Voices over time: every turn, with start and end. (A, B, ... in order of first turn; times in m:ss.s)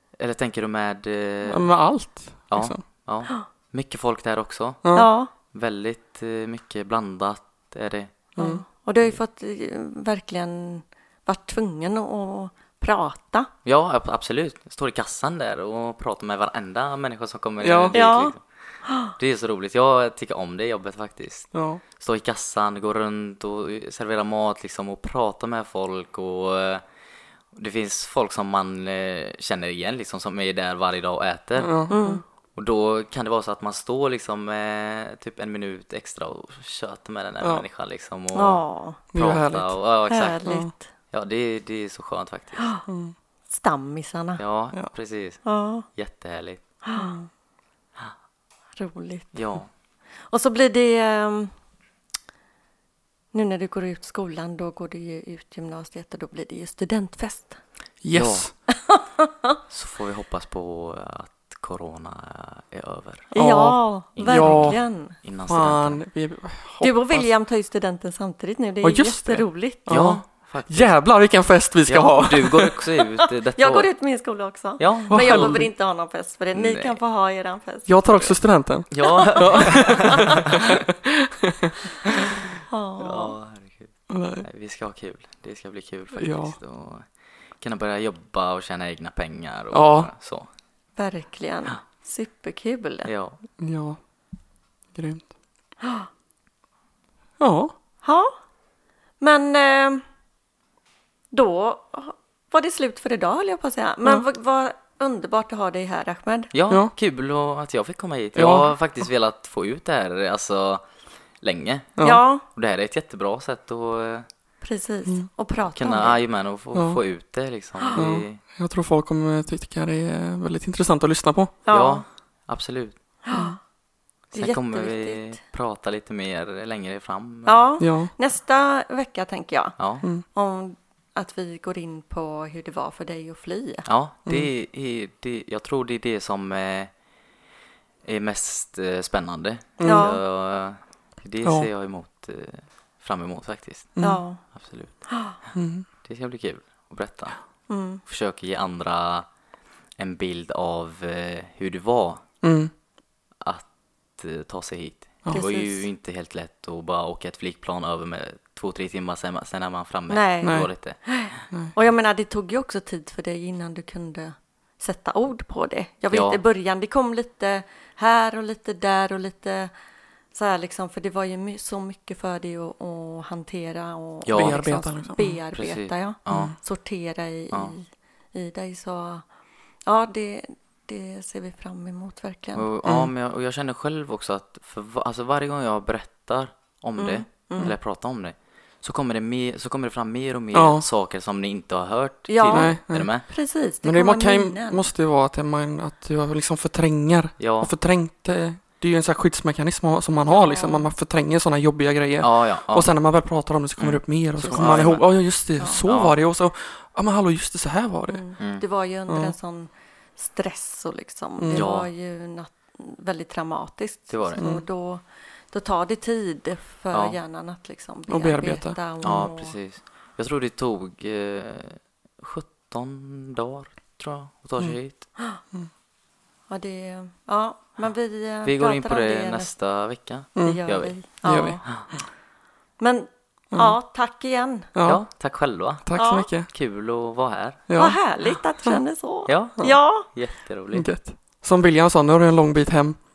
0:00.2-0:01.7 A
0:01.5-0:02.8 B
0:02.5-0:04.8 A
0:04.8-0:05.1 B
0:04.9-0:05.3 C
0:05.5-0:08.2 A
0:08.4-0:13.5 C
0:08.4-0:08.6 B
0:13.6-0:18.4 A
0:17.6-0:18.0 B
0:17.9-0:19.1 C
0:19.1-0:26.8 A
0:21.5-0:21.8 B
0:27.5-0:38.6 A
0:31.6-0:32.2 B
0:31.9-0:32.2 C
0:38.4-0:39.0 C
0:39.1-0:39.8 B
0:39.1-0:40.4 A
0:40.1-0:40.8 C
0:40.4-0:40.7 B
0:41.1-0:42.7 A
0:42.6-0:42.9 C
0:42.9-0:43.1 B
0:43.5-0:44.4 C
0:44.4-0:46.6 A
0:45.4-0:45.9 C
0:46.8-0:47.2 C
0:46.9-0:47.2 B
0:48.8-0:49.4 C
0:49.3-0:49.7 A
0:50.3-0:51.5 C
0:53.3-0:57.6 C
0:58.0-0:58.5 B
0:58.1-0:58.5 A
0:58.7-0:59.3 C
0:59.7-1:03.3 A
1:03.3-1:05.1 C
1:03.4-1:04.8 B
1:04.1-1:06.0 A
1:05.5-1:07.3 B
1:06.8-1:09.9 C
1:08.8-1:12.8 B
1:09.9-1:11.0 A
1:11.9-1:13.9 A
1:13.6-1:18.1 C
1:14.8-1:15.6 A
1:15.1-1:15.7 B
1:16.5-1:17.0 A
1:17.9-1:21.7 B
1:18.1-1:18.4 A
1:18.9-1:20.8 A
1:19.1-1:20.3 C
1:22.7-1:23.4 C
1:23.0-1:27.1 A
1:24.1-1:24.4 B
1:26.2-1:26.6 B
1:27.6-1:30.5 A
1:29.7-1:30.1 B
1:31.0-1:33.1 C
1:33.0-1:33.4 A
1:33.6-1:34.0 B
1:34.9-1:35.3 B
1:35.8-1:36.1 C
1:37.4-1:37.7 B
1:38.0-1:38.3 C
1:39.2-1:40.0 C
1:41.3-1:46.5 C
1:46.5-1:50.9 A
1:48.4-1:48.7 B
1:51.4-1:54.3 A
1:52.0-1:52.2 B
1:52.0-1:52.4 C
1:54.6-1:56.2 C
1:55.8-1:58.4 A
1:56.7-1:57.0 B
1:57.9-2:01.5 B
2:01.6-2:02.0 C
2:01.7-2:03.0 A
2:03.2-2:03.6 C
2:04.3-2:05.4 C
2:04.3-2:07.6 A
2:07.4-2:13.9 C
2:07.8-2:08.1 B
2:09.8-2:10.1 A
2:13.8-2:16.9 A
2:18.0-2:24.0 A
2:19.8-2:20.1 B
2:19.8-2:20.2 C
2:21.4-2:21.7 B
2:24.0-2:24.2 B
2:24.0-2:24.4 C
2:24.5-2:25.5 A
2:25.1-2:25.3 C
2:25.6-2:25.9 B
2:26.0-2:27.4 A
2:27.7-2:28.0 C
2:28.0-2:29.3 A
2:30.0-2:32.2 A
2:32.4-2:32.7 B
2:33.4-2:41.0 A
2:35.3-2:35.8 C
2:40.1-2:49.7 C
2:40.4-2:40.7 B
2:46.1-2:46.4 A
2:50.3-2:59.2 C
2:54.2-2:54.7 A
2:54.3-2:55.4 B
2:55.5-2:56.6 A
2:56.3-2:56.6 B
2:59.9-3:02.7 C
3:02.5-3:13.2 A
3:02.8-3:03.1 B
3:07.0-3:07.7 C
3:10.5-3:10.8 B
3:12.3-3:14.9 C
3:12.5-3:13.1 B
3:13.8-3:28.2 B
3:17.4-3:17.7 A
3:20.2-3:20.9 C
3:22.2-3:22.9 A
3:23.8-3:25.0 A
3:24.5-3:24.9 C
3:25.6-3:25.8 C
3:25.8-3:26.2 A
3:28.1-3:39.5 C
3:28.4-3:28.6 A
3:29.1-3:29.3 B
3:31.4-3:31.7 B
3:31.5-3:31.9 A
3:34.1-3:34.5 A
3:34.4-3:34.6 B
3:36.9-3:37.2 A
3:38.1-3:39.3 B
3:39.0-3:45.0 A
3:46.5-3:49.5 C
3:48.4-3:50.9 A
3:50.4-3:50.6 B
3:50.4-3:51.6 C
3:51.2-3:51.7 B
3:52.8-3:54.7 C
3:54.8-3:55.0 B
3:54.8-3:55.9 A
3:55.8-3:56.5 B
3:56.0-3:56.3 C
3:56.5-3:57.6 A
3:57.7-3:58.0 B
3:57.8-4:00.1 C
3:59.2-4:00.9 A
4:00.7-4:03.0 B